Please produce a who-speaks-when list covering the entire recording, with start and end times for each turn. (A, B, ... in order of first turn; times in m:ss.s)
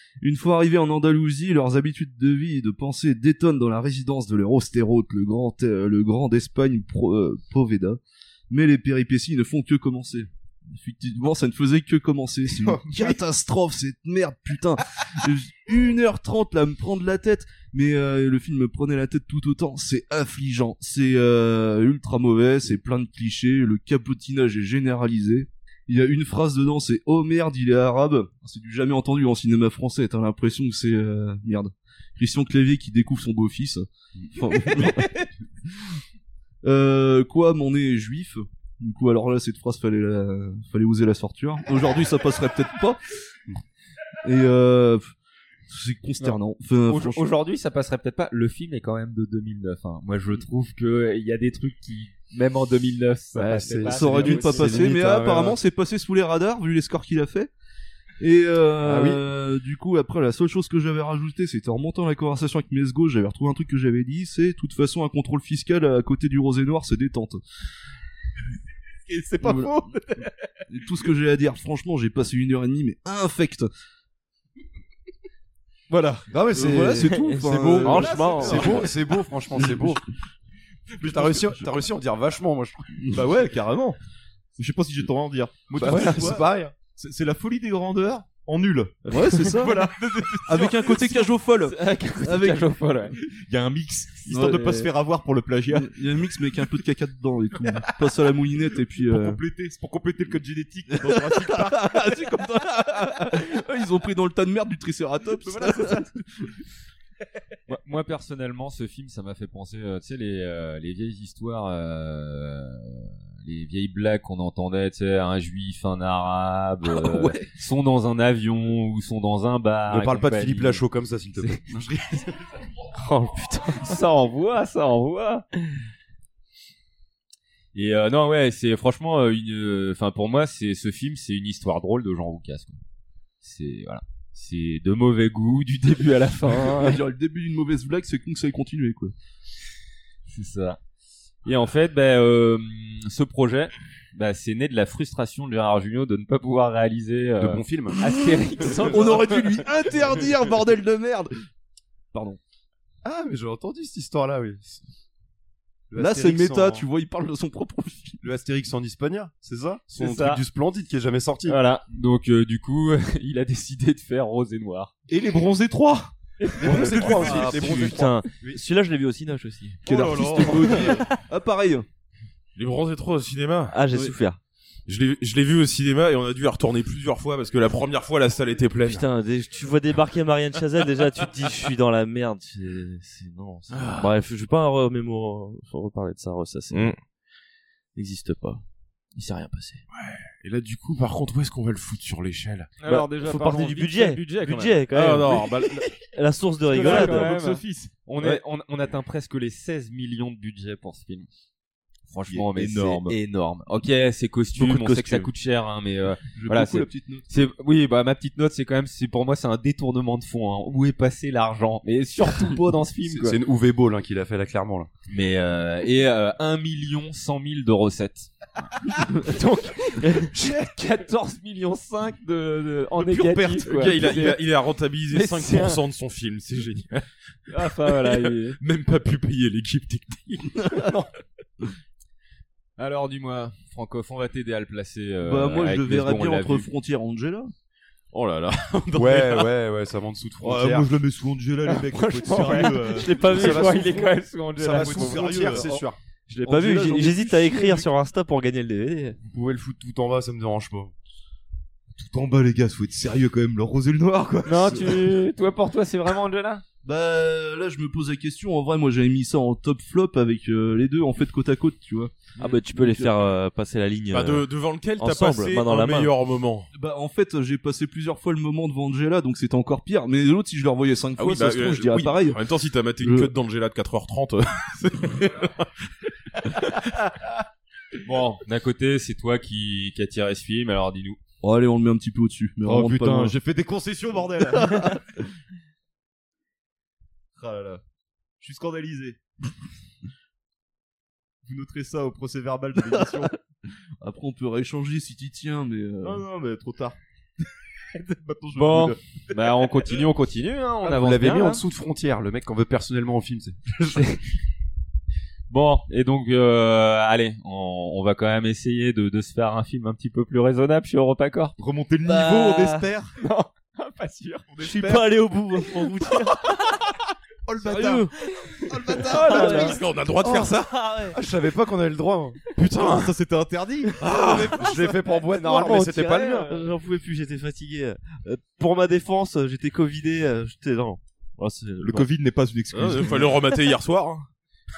0:00.2-0:35.8 A
0:34.2-0:34.8 B
0:36.6-0:43.0 A
0:44.2-0:45.1 A
0:45.7-0:47.3 A
0:46.2-0:54.9 C
0:53.3-0:55.6 B
0:53.9-0:57.5 A
0:58.2-1:07.4 A
0:58.8-0:59.2 B
1:09.1-1:09.6 D
1:09.4-1:09.7 A
1:10.7-1:13.7 A
1:15.9-1:16.2 D
1:16.3-1:20.0 B
1:16.5-1:18.8 A
1:18.0-1:18.8 D
1:19.6-1:19.9 A
1:21.0-1:23.1 B
1:23.1-1:24.0 D
1:24.6-1:31.0 D
1:25.7-1:26.7 B
1:29.1-1:29.9 A
1:30.4-1:32.7 A
1:31.6-1:33.1 C
1:33.2-1:36.0 D
1:34.3-1:34.7 A
1:34.3-1:34.9 C
1:35.7-1:39.4 A
1:39.1-1:42.0 D
1:41.0-1:46.1 A
1:47.7-2:00.8 C
1:56.9-1:57.3 A
1:59.9-2:02.2 B
2:03.0-2:03.7 E
2:03.8-2:05.4 C
2:07.7-2:12.8 C
2:13.4-2:17.0 C
2:16.6-2:19.1 A
2:20.3-2:20.8 C
2:21.4-2:29.6 C
2:27.4-2:28.0 B
2:28.6-2:31.3 A
2:32.1-2:32.4 A
2:33.0-2:34.8 B
2:35.9-2:36.9 B
2:36.0-2:38.2 A
2:38.2-2:41.6 B
2:40.0-2:40.4 C
2:41.5-2:44.9 C
2:45.1-2:46.1 D
2:46.4-2:47.6 C
2:46.6-2:48.6 B
2:46.7-2:47.5 D
2:46.9-2:51.2 E
2:49.8-2:50.9 F
2:49.8-2:51.8 A
2:52.5-2:53.8 F
2:53.7-2:54.4 E
2:53.9-2:54.1 A
2:54.9-2:59.1 F
2:58.8-3:06.9 E
3:03.7-3:04.1 F
3:07.9-3:09.8 E
3:09.9-3:12.7 F
3:12.8-3:14.8 C
3:12.8-3:17.4 E
3:14.9-3:16.1 F
3:16.7-3:21.3 C
3:16.7-3:17.9 D
3:22.1-3:33.4 C
3:22.3-3:23.2 D
3:24.6-3:25.3 E
3:26.3-3:27.3 A
3:33.0-3:34.9 B
3:35.1-3:44.4 C
3:43.0-3:50.6 F
3:45.1-3:45.8 C
3:47.5-3:48.6 C
3:52.8-3:56.7 C
3:55.2-3:57.5 A
3:58.1-3:59.4 F
3:58.9-4:00.9 B
4:00.4-4:03.6 D
4:01.7-4:05.6 C
4:02.5-4:03.9 E
4:03.2-4:06.0 B
4:04.7-4:05.7 D
4:06.3-4:09.2 E
4:06.4-4:07.9 A
4:09.2-4:10.9 B
4:11.9-4:15.1 D
4:14.4-4:16.6 C
4:16.8-4:23.2 A
4:22.4-4:24.4 E
4:24.1-4:26.7 F
4:25.0-4:26.1 E
4:26.7-4:32.4 A
4:31.2-4:35.7 F
4:33.0-4:33.3 A
4:38.0-4:41.2 C
4:41.4-4:43.4 A
4:42.6-4:45.0 D
4:47.3-4:47.8 D
4:48.4-4:49.2 D
4:51.4-4:53.3 D
4:54.0-4:56.2 A
4:56.0-4:57.0 D
4:57.9-4:59.3 D
4:58.5-5:01.6 C
5:00.8-5:04.2 B
5:05.5-5:11.5 C
5:11.6-5:13.2 D
5:12.0-5:12.9 E
5:13.2-5:14.5 C
5:14.5-5:15.2 D
5:14.6-5:16.8 E
5:17.5-5:18.1 D
5:17.7-5:18.1 E
5:18.7-5:19.7 D
5:18.9-5:21.1 E
5:19.1-5:19.7 C
5:19.3-5:20.9 F
5:21.1-5:22.5 B
5:22.6-5:24.0 D
5:24.0-5:26.6 B
5:24.0-5:32.1 E
5:24.1-5:24.5 F
5:31.8-5:33.4 D
5:32.7-5:34.3 F